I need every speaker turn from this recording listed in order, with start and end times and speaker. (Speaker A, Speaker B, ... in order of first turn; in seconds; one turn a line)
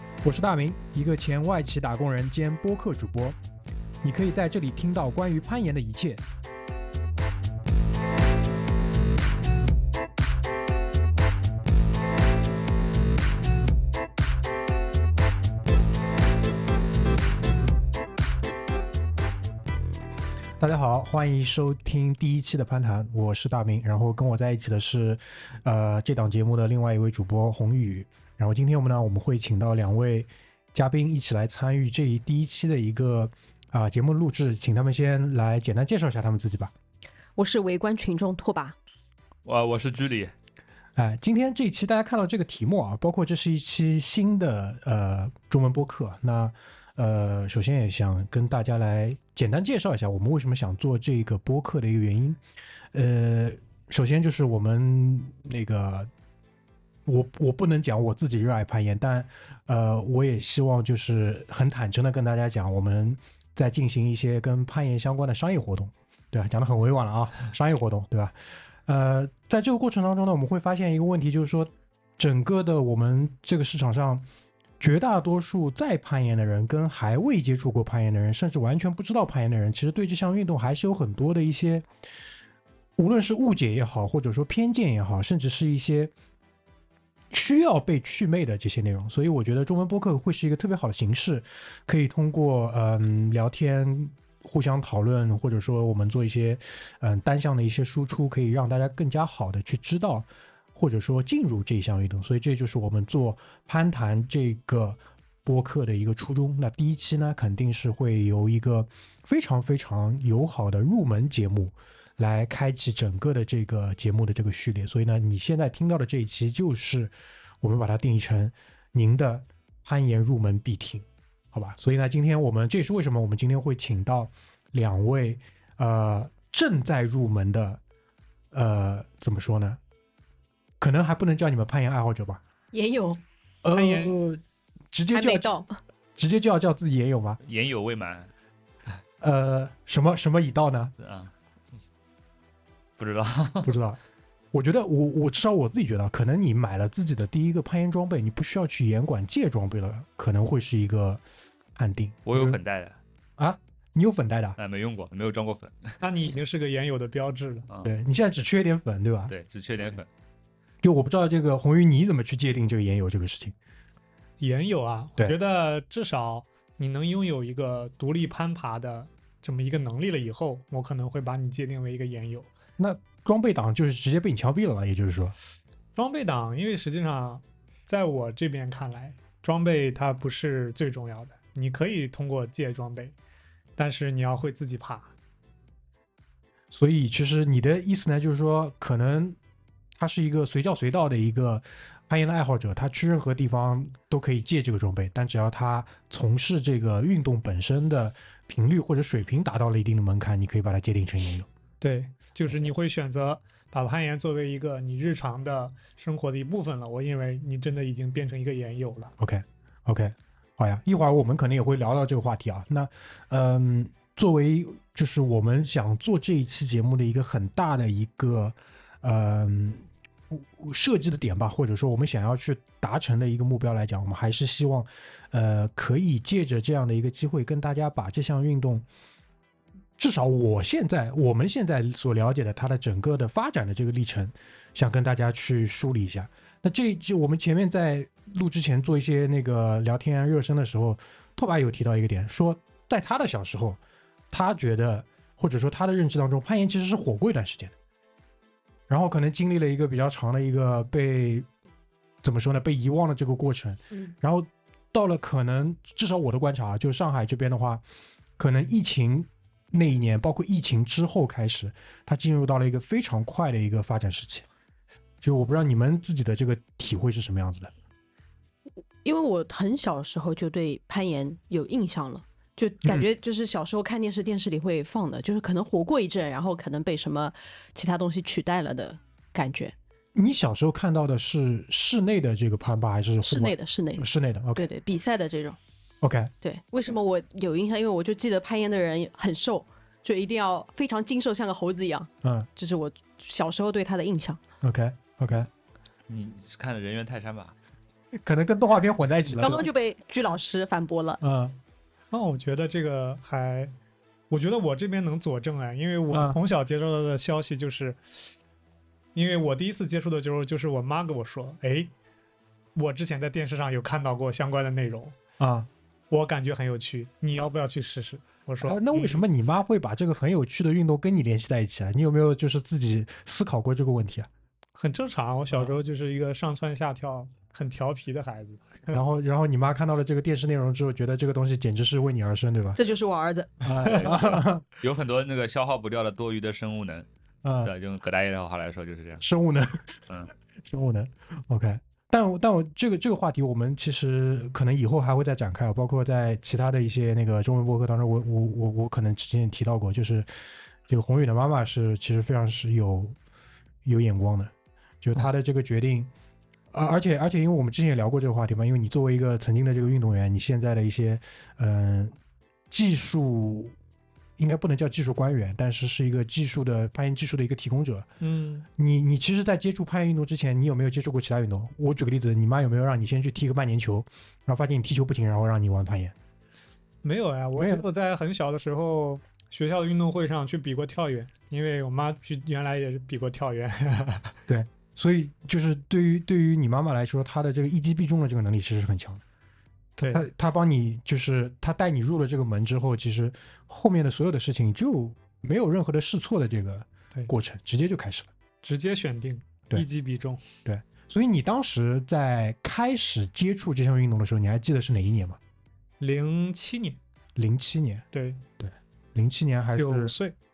Speaker A: 0.2-3.4
Speaker A: 4.0-6.2
Speaker A: 20.6-36.7
Speaker B: 37.4-38.8
Speaker C: 39.4-40.3
Speaker A: 41.0-52.4
Speaker A: 52.9-56.1
Speaker A: 57.0-74.2
Speaker A: 74.8-81.9
Speaker A: 83.0-86.1
Speaker A: 87.3-127.8
Speaker A: 128.5-129.8
Speaker A: 130.8-132.4
Speaker B: 132.7-133.2
Speaker A: 133.6-135.5
Speaker D: 133.7-134.1
Speaker B: 135.1-135.7
Speaker A: 136.2-137.4
Speaker C: 137.4-138.3
Speaker A: 139.2-140.9
Speaker C: 141.0-141.3
Speaker C: 143.0-143.8
Speaker A: 143.6-144.0
Speaker A: 144.5-151.2
Speaker A: 151.7-152.6
Speaker C: 152.2-153.0
Speaker A: 153.4-154.6
Speaker C: 154.6-156.0
Speaker D: 156.0-157.7
Speaker A: 157.8-159.3
Speaker C: 159.3-160.1
Speaker A: 160.8-163.5
Speaker D: 164.4-172.5
Speaker A: 172.8-175.3
Speaker D: 175.9-183.2
Speaker D: 183.8-185.1
Speaker A: 186.7-189.4
Speaker A: 190.0-201.5
Speaker D: 201.8-209.1
Speaker A: 209.2-228.8
Speaker A: 230.0-243.8
Speaker A: 244.3-247.7
Speaker A: 248.9-251.5
Speaker A: 252.2-257.8
Speaker A: 258.4-264.4
Speaker A: 265.2-267.7
Speaker B: 269.0-279.7
Speaker A: 280.1-284.7
Speaker B: 283.2-285.6
Speaker A: 286.0-286.3
Speaker B: 286.4-294.4
Speaker A: 292.2-292.5
Speaker A: 294.6-295.5
Speaker C: 296.1-297.5
Speaker A: 298.1-299.7
Speaker B: 299.4-301.2
Speaker A: 301.2-301.6
Speaker D: 302.1-303.7
Speaker D: 304.3-308.0
Speaker A: 306.1-306.4
Speaker D: 309.1-311.9
Speaker D: 312.7-315.2
Speaker A: 315.4-315.7
Speaker D: 316.1-319.2
Speaker A: 318.6-324.3
Speaker D: 324.8-329.0
Speaker A: 328.9-332.8
Speaker B: 332.7-333.8
Speaker A: 333.6-334.6
Speaker C: 333.9-337.1
Speaker A: 337.4-337.7
Speaker C: 337.6-339.2
Speaker A: 339.2-340.0
Speaker A: 340.6-350.3
Speaker A: 350.9-353.1
Speaker A: 353.8-356.1
Speaker A: 356.7-362.1
Speaker A: 362.7-363.7
Speaker A: 364.4-368.1
Speaker D: 368.2-368.7
Speaker A: 368.8-376.1
Speaker D: 377.0-384.4
Speaker A: 377.6-377.8
Speaker A: 384.5-389.2
Speaker D: 390.0-390.2
Speaker A: 390.1-398.3
Speaker D: 398.6-400.4
Speaker A: 400.6-405.4
Speaker D: 406.0-407.0
Speaker A: 407.4-408.1
Speaker D: 408.1-408.4
Speaker A: 408.6-410.1
Speaker D: 409.7-410.3